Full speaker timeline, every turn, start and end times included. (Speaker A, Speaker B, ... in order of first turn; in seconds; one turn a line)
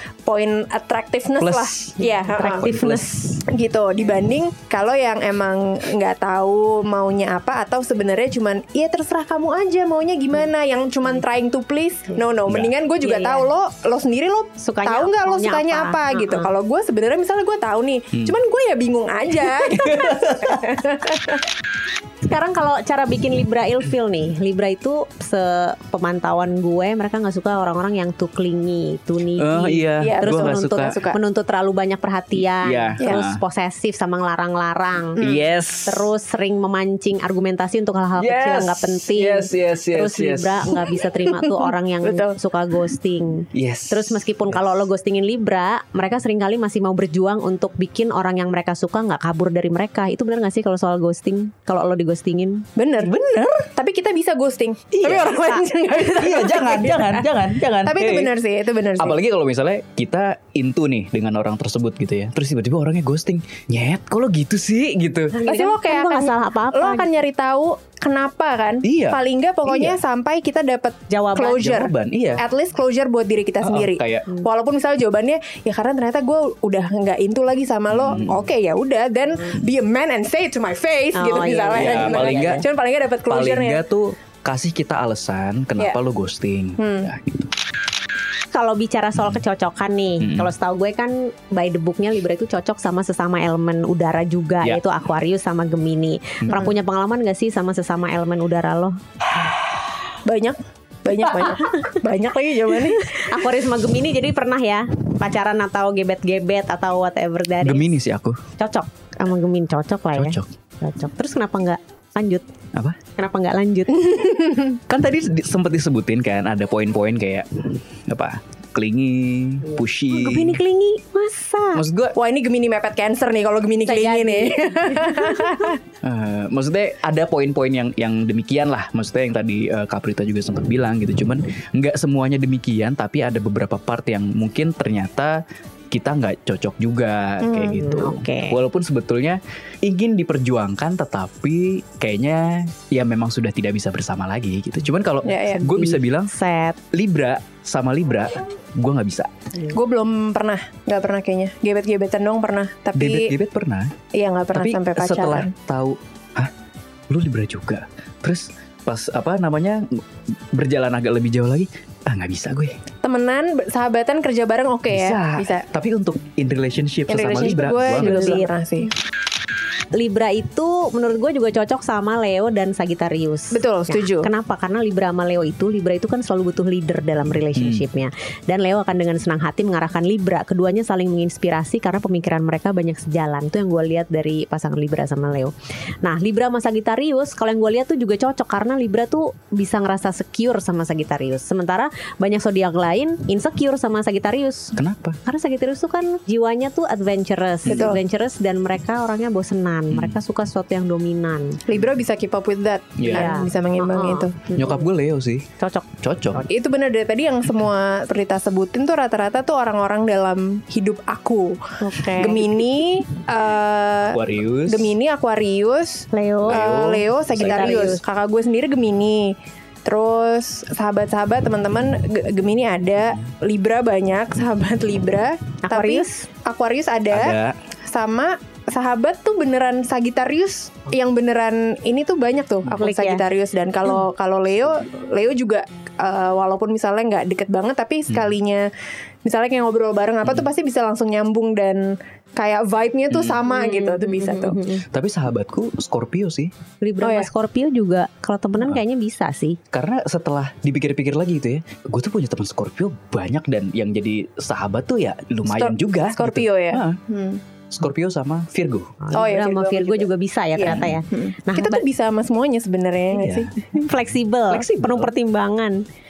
Speaker A: 0.2-2.7
Speaker B: 1.4-3.2
Speaker C: 2.0-3.4
Speaker A: 3.5-21.4
Speaker B: 12.5-12.7
Speaker C: 13.0-13.5
Speaker C: 14.6-16.5
Speaker B: 19.6-20.8
Speaker C: 22.2-35.3
Speaker B: 29.4-31.0
Speaker A: 30.0-31.2
Speaker B: 32.4-33.4
Speaker A: 35.2-35.4
Speaker B: 35.2-36.1
Speaker C: 35.9-52.7
Speaker B: 38.2-40.9
Speaker A: 42.0-42.3
Speaker B: 43.5-44.8
Speaker A: 52.8-53.1
Speaker B: 53.0-53.6
Speaker A: 53.7-57.3
Speaker B: 55.0-55.5
Speaker C: 55.0-55.6
Speaker B: 56.0-58.3
Speaker A: 57.8-59.2
Speaker B: 59.0-65.4
Speaker C: 65.3-67.1
Speaker A: 65.5-83.8
Speaker B: 68.8-70.0
Speaker C: 71.1-71.7
Speaker B: 71.6-72.4
Speaker B: 73.6-74.3
Speaker B: 77.9-78.5
Speaker C: 81.1-82.6
Speaker B: 81.7-82.6
Speaker B: 83.3-87.5
Speaker A: 86.8-87.1
Speaker C: 88.5-99.0
Speaker B: 90.2-90.5
Speaker A: 100.2-103.2
Speaker C: 101.6-101.9
Speaker C: 103.0-107.8
Speaker B: 107.6-108.4
Speaker C: 108.6-112.5
Speaker B: 110.1-110.5
Speaker C: 113.2-114.1
Speaker A: 114.1-114.8
Speaker B: 114.9-120.6
Speaker C: 119.7-121.8
Speaker B: 121.7-122.1
Speaker A: 122.1-125.8
Speaker C: 123.8-125.7
Speaker B: 126.0-146.3
Speaker A: 137.4-137.8
Speaker C: 137.8-138.6
Speaker A: 145.2-145.7
Speaker C: 145.6-146.8
Speaker B: 146.9-149.3
Speaker A: 149.7-153.3
Speaker B: 152.9-153.9
Speaker A: 154.1-155.5
Speaker B: 154.5-156.5
Speaker B: 157.1-162.8
Speaker A: 163.0-165.7
Speaker B: 164.9-168.4
Speaker A: 167.1-168.9
Speaker C: 167.9-168.5
Speaker C: 169.9-201.6
Speaker A: 173.5-174.3
Speaker B: 177.6-177.8
Speaker B: 194.8-195.2
Speaker A: 197.7-198.0
Speaker B: 197.7-197.9
Speaker B: 199.9-200.2
Speaker A: 201.7-204.4
Speaker B: 203.0-203.3
Speaker C: 203.1-204.8
Speaker B: 204.5-205.5
Speaker C: 205.6-206.5
Speaker B: 206.0-206.4
Speaker A: 206.5-227.3
Speaker C: 211.8-212.4
Speaker B: 214.1-214.9
Speaker C: 216.1-216.6
Speaker B: 216.5-218.0
Speaker C: 217.4-218.0
Speaker C: 225.6-226.2
Speaker B: 227.1-227.6
Speaker A: 227.9-238.7
Speaker C: 232.8-233.2
Speaker A: 239.2-244.6
Speaker B: 243.1-243.4
Speaker C: 243.4-244.8
Speaker B: 244.9-246.5
Speaker C: 246.8-249.6
Speaker A: 247.0-247.3
Speaker B: 249.7-257.0
Speaker A: 255.5-257.4
Speaker B: 257.7-258.9
Speaker C: 259.0-261.8
Speaker A: 259.1-263.7
Speaker B: 260.6-260.9
Speaker B: 263.1-263.5
Speaker C: 263.7-265.8
Speaker B: 264.5-265.1